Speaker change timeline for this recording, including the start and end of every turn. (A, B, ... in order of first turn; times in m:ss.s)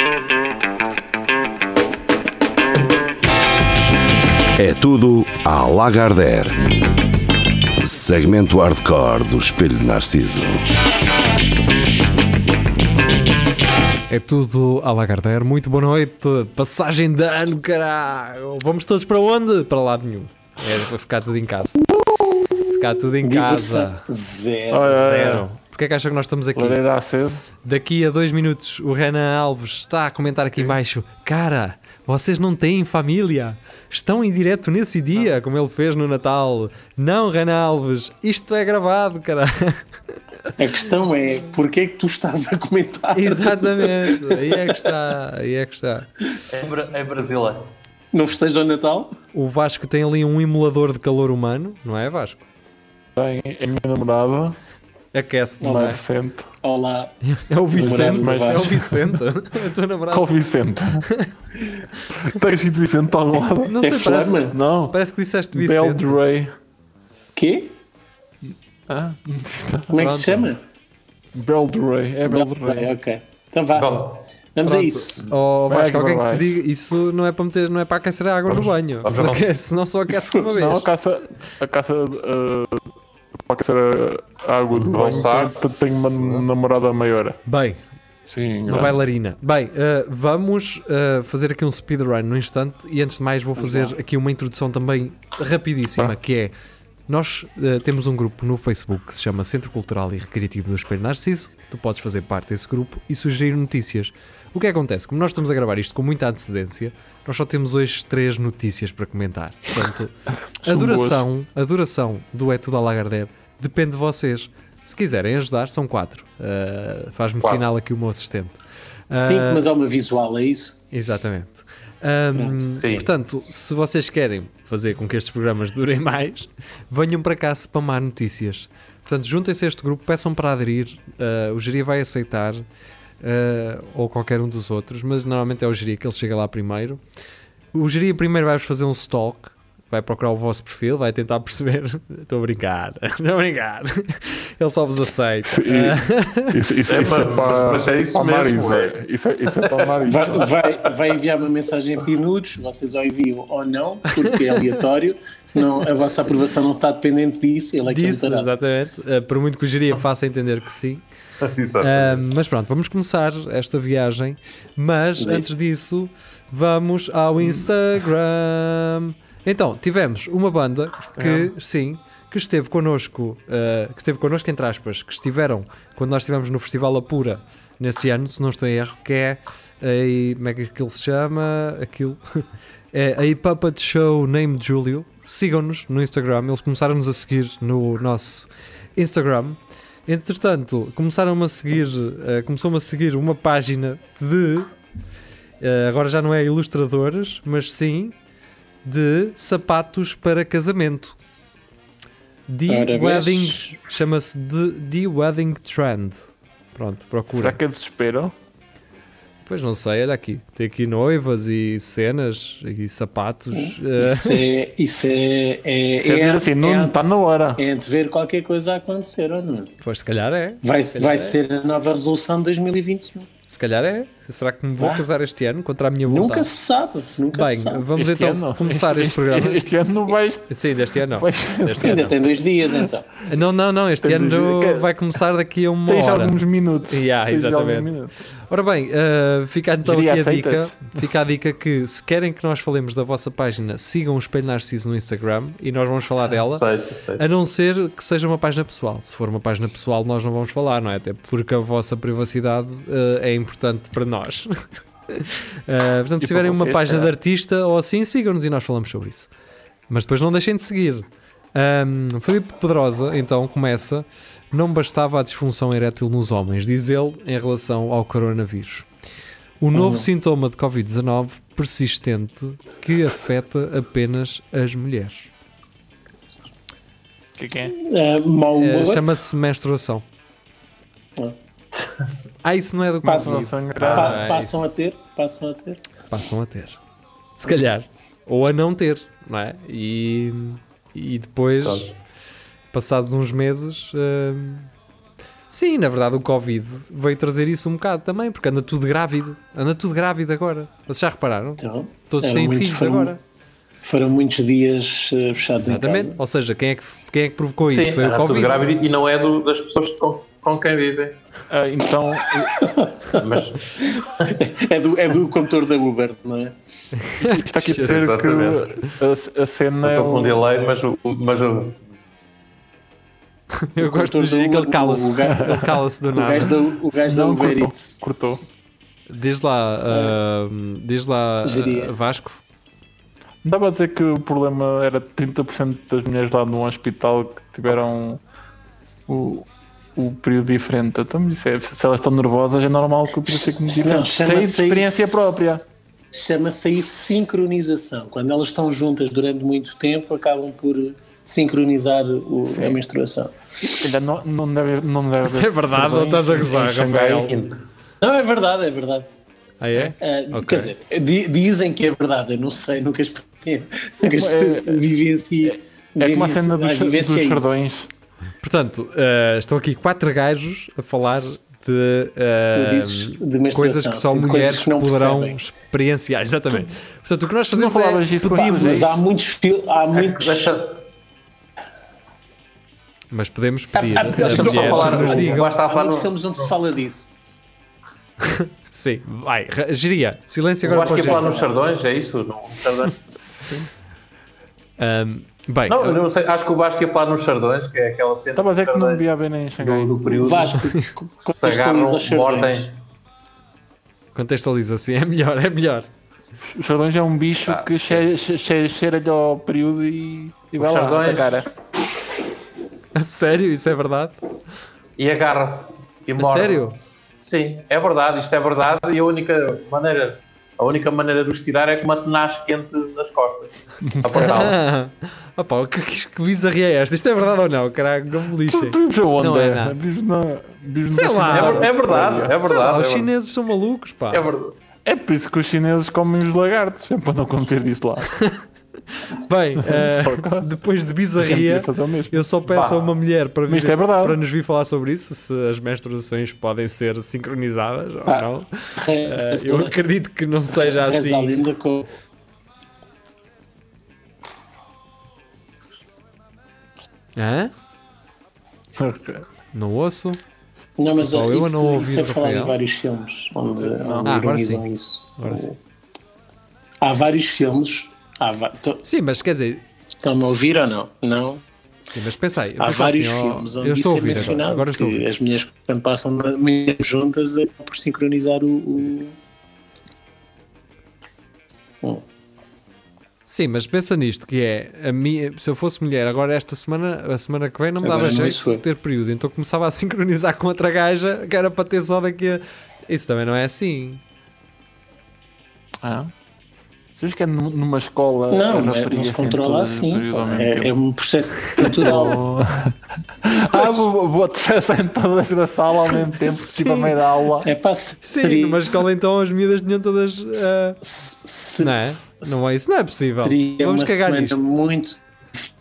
0:04.6-0:06.6 A
0:07.8-0:10.7 A
0:14.1-0:21.8 B
0:22.7-0:24.0 B
0:23.2-0:25.2 C
0:24.7-0:25.5 D
0:24.9-0:26.8 B
0:26.5-0:27.4 D
0:27.6-0:39.8 B
0:40.6-0:44.7 C
0:43.1-0:46.1 B
0:46.5-0:47.6 E
0:48.1-0:49.1 C
0:49.3-0:52.4 B
0:53.2-0:54.6 D
0:55.1-0:56.0 B
0:55.6-0:56.0 C
0:55.6-0:56.5 D
0:56.6-0:57.1 C
0:57.2-1:00.3 B
0:57.7-0:58.9 C
0:57.7-0:59.2 D
1:00.1-1:01.0 D
1:01.0-1:01.3 B
1:02.2-1:03.8 D
1:03.6-1:06.2 B
1:03.8-1:04.5 C
1:04.5-1:05.0 D
1:05.5-1:06.5 D
1:07.3-1:07.8 C
1:08.9-1:10.0 D
1:09.9-1:10.6 C
1:10.0-1:10.5 B
1:11.3-1:12.9 D
1:12.2-1:14.0 C
1:13.7-1:14.2 E
1:14.5-1:15.3 C
1:14.6-1:20.9 B
1:15.7-1:16.5 D
1:18.5-1:19.6 E
1:20.1-1:22.8 D
1:23.5-1:27.4 D
1:24.7-1:25.5 E
1:26.2-1:26.4 E
1:27.4-1:27.8 B
1:28.3-1:29.0 D
1:28.7-1:36.5 B
1:33.6-1:34.0 C
1:37.1-1:58.6 B
1:50.6-1:51.2 D
1:59.1-1:59.6 B
1:59.1-2:00.8 C
2:00.9-2:12.6 B
2:02.3-2:02.6 C
2:02.7-2:03.1 E
2:13.2-2:17.0 B
2:17.7-2:26.5 B
2:25.4-2:30.5 D
2:26.9-2:29.0 E
2:29.5-2:29.9 E
2:30.0-2:38.5 C
2:37.8-2:41.0 B
2:41.4-2:42.2 E
2:41.8-3:02.2 B
2:45.2-2:45.5 C
2:51.0-2:51.5 D
3:02.9-3:14.7 B
3:15.6-3:18.2 B
3:18.8-3:21.2 B
3:22.5-3:26.2 B
3:22.7-3:23.7 C
3:26.7-3:27.6 B
3:27.3-3:28.3 D
3:29.4-3:34.4 B
3:33.5-3:39.7 C
3:36.0-3:37.6 D
3:39.8-3:41.4 B
3:40.6-3:43.3 C
3:43.4-3:46.5 B
3:44.8-3:45.0 C
3:46.1-3:47.9 C
3:47.3-3:49.7 B
3:47.9-3:50.5 D
3:50.5-3:52.2 B
3:51.1-3:52.1 D
3:51.8-3:53.1 C
3:53.2-3:58.0 B
3:54.0-3:54.9 D
3:55.8-3:58.2 D
3:58.5-4:06.6 B
3:59.8-4:00.8 D
4:06.2-4:07.2 E
4:07.2-4:14.5 B
4:15.1-4:19.3 B
4:16.2-4:17.1 D
4:19.9-4:28.9 B
4:29.6-4:35.3 B
4:29.7-4:30.0 C
4:37.4-4:37.7 D
4:37.7-4:39.0 C
4:38.6-4:40.0 B
4:42.4-4:44.7 B
4:43.0-4:44.2 D
4:43.0-4:45.8 C
4:43.8-4:44.1 E
4:46.1-4:46.8 B
4:47.4-4:51.9 B
4:51.6-4:52.0 E
4:52.7-4:54.7 B
4:55.5-5:03.2 B
5:01.6-5:03.2 C
5:03.8-5:06.2 C
5:05.6-5:08.7 B
5:07.7-5:11.2 E
5:11.5-5:12.6 D
5:12.6-5:13.3 C
5:13.2-5:13.6 E
5:13.8-5:16.5 C
5:17.0-5:18.1 B
5:17.2-5:20.4 D
5:17.7-5:18.6 E
5:19.8-5:21.8 E
5:23.5-5:26.5 B
5:23.8-5:28.0 C
5:27.0-5:28.4 D
5:29.1-5:32.4 B
5:29.9-5:30.2 C
5:31.4-5:31.9 C
5:33.4-5:38.2 D
5:39.1-5:45.6 D
5:43.7-5:45.4 C
5:46.1-5:53.9 C
5:52.5-5:52.8 D
5:53.8-5:57.3 D
5:55.2-5:57.3 B
5:57.0-5:57.6 E
5:58.0-5:59.1 C
5:59.6-6:00.7 B
6:00.0-6:07.6 C
6:04.1-6:04.8 D
6:05.4-6:07.9 D
6:08.4-6:18.1 B
6:12.4-6:15.4 C
6:17.5-6:19.0 D
6:18.2-6:20.5 C
6:20.0-6:20.8 E
6:23.1-6:25.5 B
6:23.7-6:27.1 C
6:24.1-6:26.5 E
6:28.2-6:31.3 B
6:30.6-6:33.0 E
6:30.9-6:31.3 D
6:33.2-6:33.7 D
6:34.8-6:36.0 B
6:35.7-6:39.1 E
6:38.3-6:40.0 D
6:39.6-6:40.6 E
6:40.1-6:42.7 C
6:41.2-6:42.7 E
6:44.1-6:45.9 B
6:46.5-6:51.5 D
6:47.5-6:48.2 E
6:50.6-6:51.4 E
6:52.9-6:54.2 B
6:55.0-6:56.7 E
6:56.2-6:56.8 B
6:57.2-7:04.6 E
7:03.9-7:04.5 D
7:04.2-7:09.7 B
7:08.4-7:12.3 D
7:10.9-7:11.7 B
7:11.3-7:13.1 E
7:12.4-7:14.2 B
7:14.1-7:14.6 E
7:14.8-7:18.1 D
7:18.1-7:18.4 B
7:19.1-7:31.4 B
7:19.6-7:20.5 D
7:21.2-7:22.2 D
7:22.4-7:23.0 E
7:23.5-7:24.2 D
7:28.1-7:29.8 C
7:30.5-7:31.9 C
7:37.2-7:37.5 B
7:38.8-7:39.2 D
7:39.5-7:40.2 B
7:40.8-7:45.5 C
7:40.9-7:42.6 B
7:43.6-7:44.2 D
7:44.0-7:45.5 B
7:46.8-7:48.8 C
7:48.8-7:49.6 B
7:50.0-7:51.4 C
7:51.9-7:55.1 B
7:52.6-7:59.2 C
8:03.2-8:14.0 B
8:07.8-8:08.6 C
8:15.8-8:16.1 D
8:17.0-8:20.8 D
8:18.3-8:22.2 C
8:21.6-8:22.7 D
8:23.2-8:27.5 D
8:26.3-8:26.9 B
8:27.4-8:28.7 C
8:28.0-8:30.8 B
8:30.8-8:32.4 C
8:31.6-8:34.4 B
8:33.2-8:35.0 C